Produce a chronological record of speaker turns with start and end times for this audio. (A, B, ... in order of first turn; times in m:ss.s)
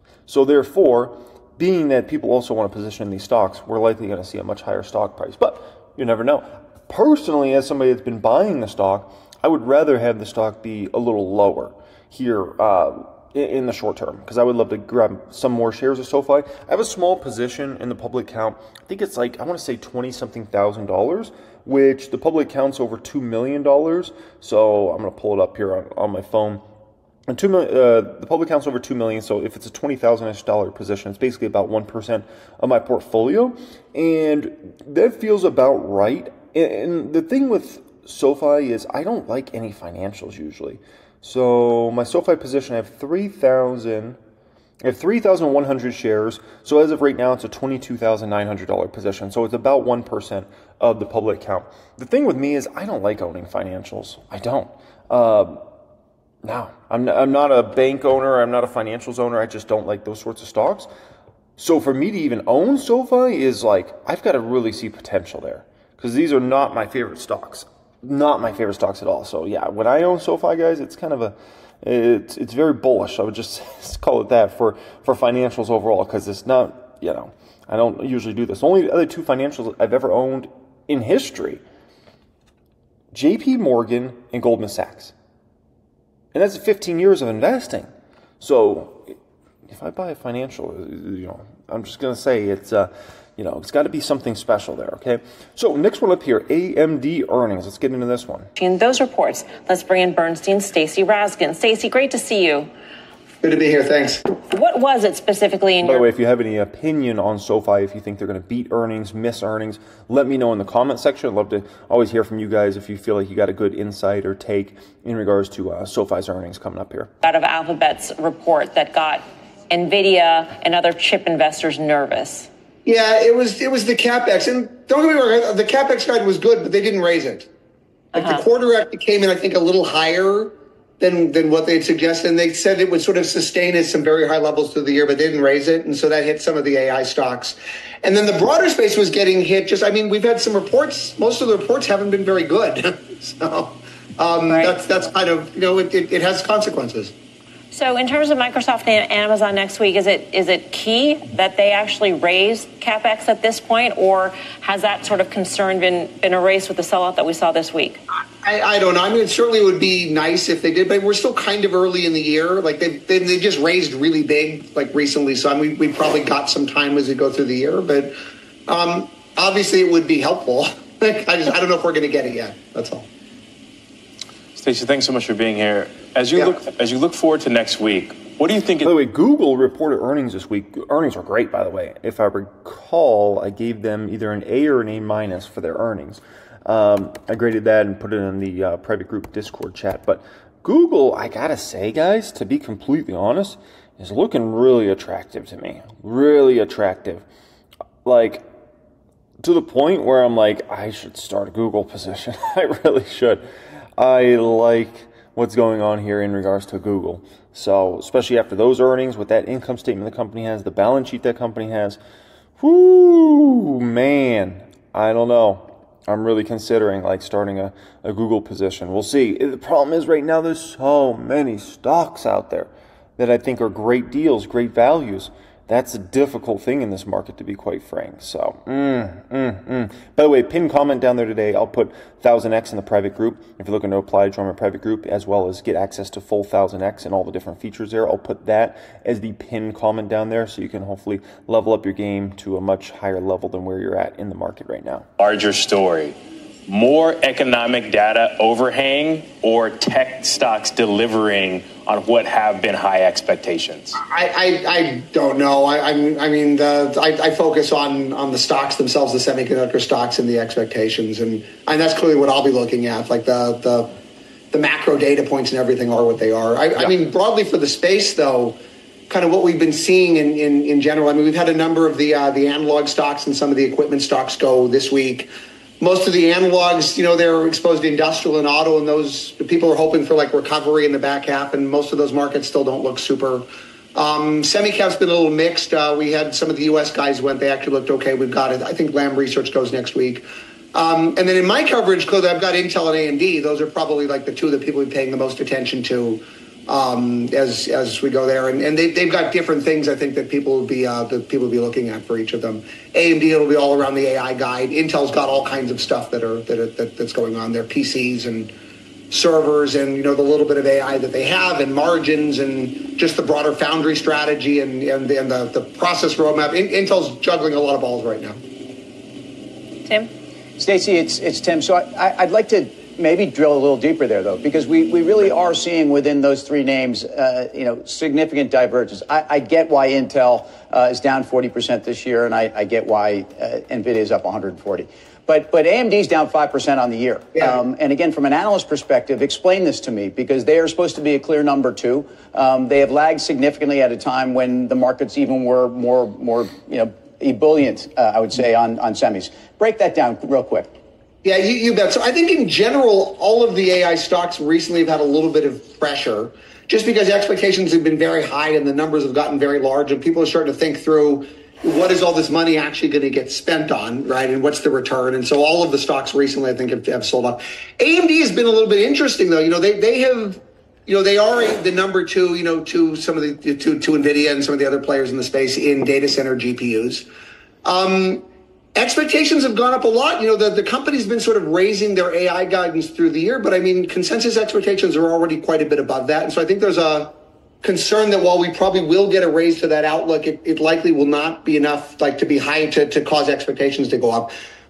0:00.3-0:26.6 A
0:27.3-0:44.2 A
0:44.8-0:55.6 A
0:56.4-1:00.9 A
1:01.6-1:21.6 A
1:23.1-1:25.1 A
1:26.3-1:27.9 A
1:28.4-1:29.1 A
1:29.7-1:38.5 A
1:38.6-1:42.7 B
1:43.4-1:44.2 C
1:44.4-1:46.1 B
1:45.8-1:57.1 A
1:57.2-2:02.5 B
2:02.8-2:07.5 C
2:08.1-2:27.1 C
2:24.5-2:24.8 B
2:27.7-2:38.0 B
2:38.4-2:48.2 C
2:48.7-2:53.1 C
2:54.5-2:58.9 D
2:58.8-3:17.2 A
3:18.0-3:18.4 A
3:19.4-3:23.4 A
3:24.0-3:32.0 A
3:32.6-4:05.1 A
4:05.2-4:14.0 D
4:14.0-4:23.9 C
4:24.5-5:08.5 C
5:09.1-5:18.4 C
5:20.6-5:50.8 E
5:51.2-6:17.0 C
6:17.6-6:18.2 C
6:18.8-6:34.3 C